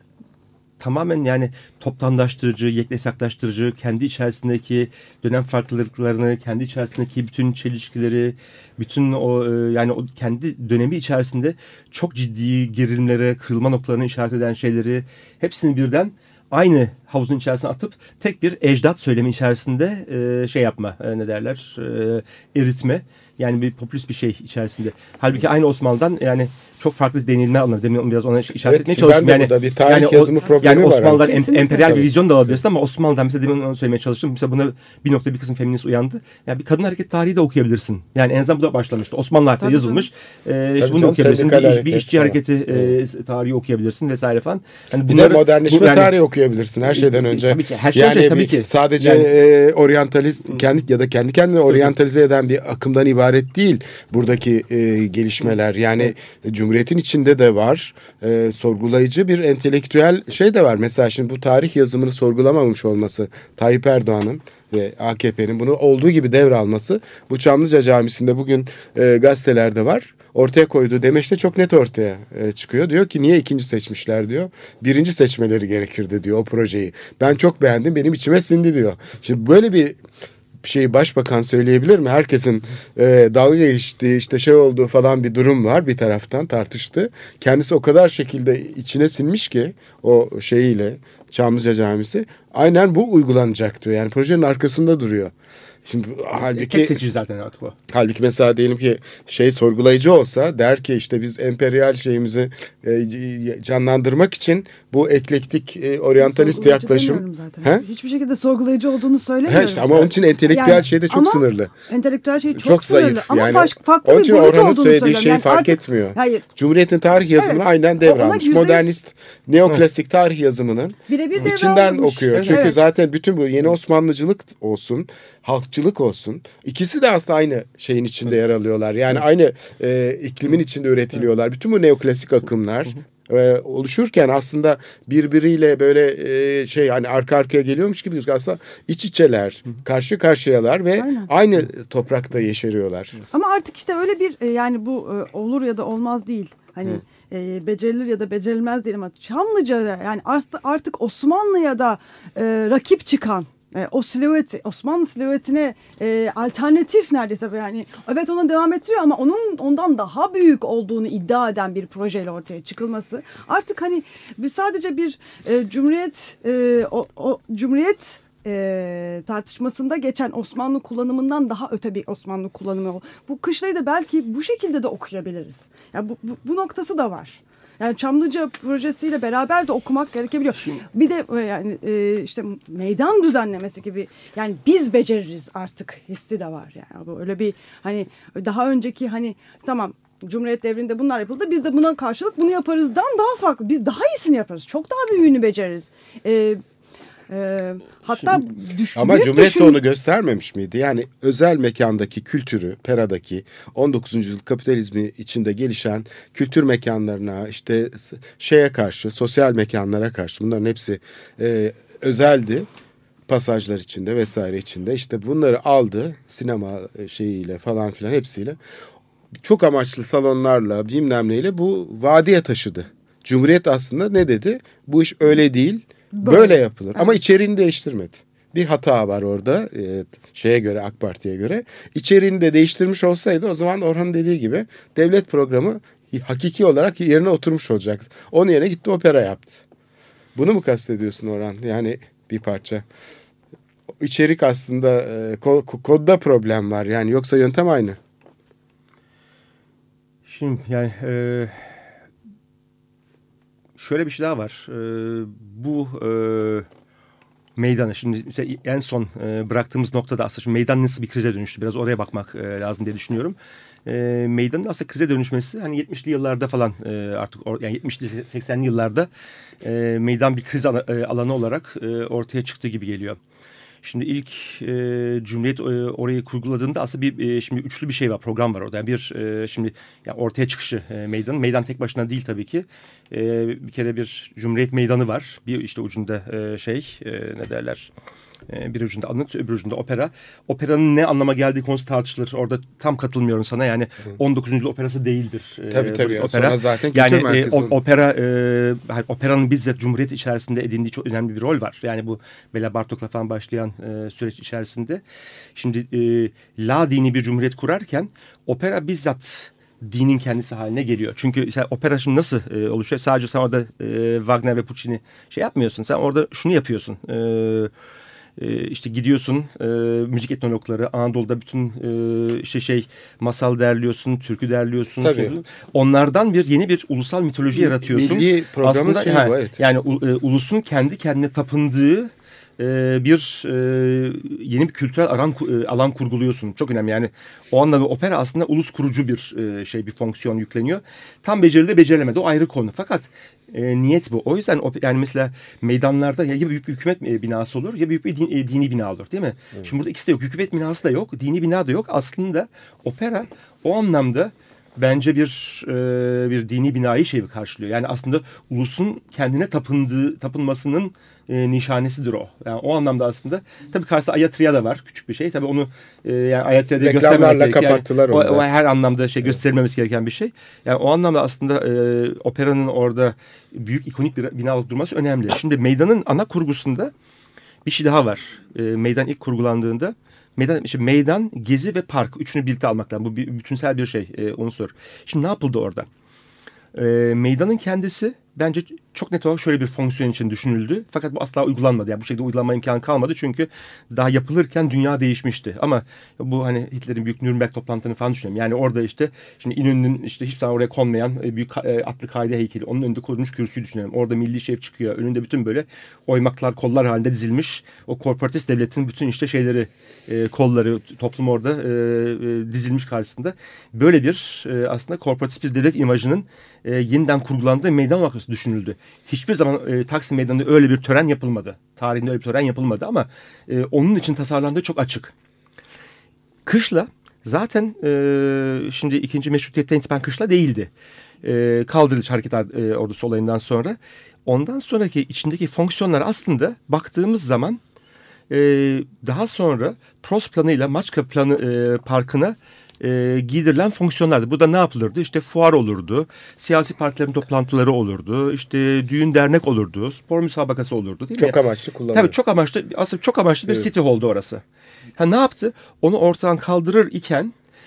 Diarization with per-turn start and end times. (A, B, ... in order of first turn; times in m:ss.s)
0:00.8-0:46.1 A
0:28.6-0:31.3 B
0:31.1-0:32.0 C
0:31.8-0:32.6 B
0:39.6-0:40.1 C
0:40.8-0:43.0 B
0:45.1-1:20.0 B
0:46.9-0:49.3 A
1:20.6-1:35.3 B
1:35.8-1:37.0 B
1:36.4-1:37.8 A
1:37.9-1:47.8 B
1:46.2-1:56.5 C
1:49.5-1:51.7 B
1:52.6-2:23.2 B
1:57.4-1:58.9 C
2:01.1-2:02.8 C
2:02.3-2:02.6 A
2:21.0-2:21.3 C
2:23.3-3:16.6 C
3:17.3-3:19.8 C
3:19.0-3:32.7 B
3:33.3-3:38.6 B
3:39.4-3:59.6 B
3:46.2-3:47.2 C
4:00.4-4:02.9 B
4:04.0-4:08.0 B
4:10.3-4:11.8 A
4:13.8-4:16.7 A
4:17.6-4:29.1 A
4:29.6-4:33.2 A
4:33.8-4:47.9 A
4:48.5-5:05.0 A
4:55.7-4:57.8 B
5:05.6-5:17.7 A
5:18.4-6:16.9 A
5:25.0-5:25.4 B
5:27.5-5:29.6 B
6:06.8-6:08.5 B
6:17.7-6:25.9 A
6:26.7-7:05.1 A
7:06.5-7:10.7 A
7:11.2-7:17.6 A
7:18.3-7:31.4 A
7:31.2-7:32.2 B
7:31.9-7:34.4 A
7:35.0-7:37.3 A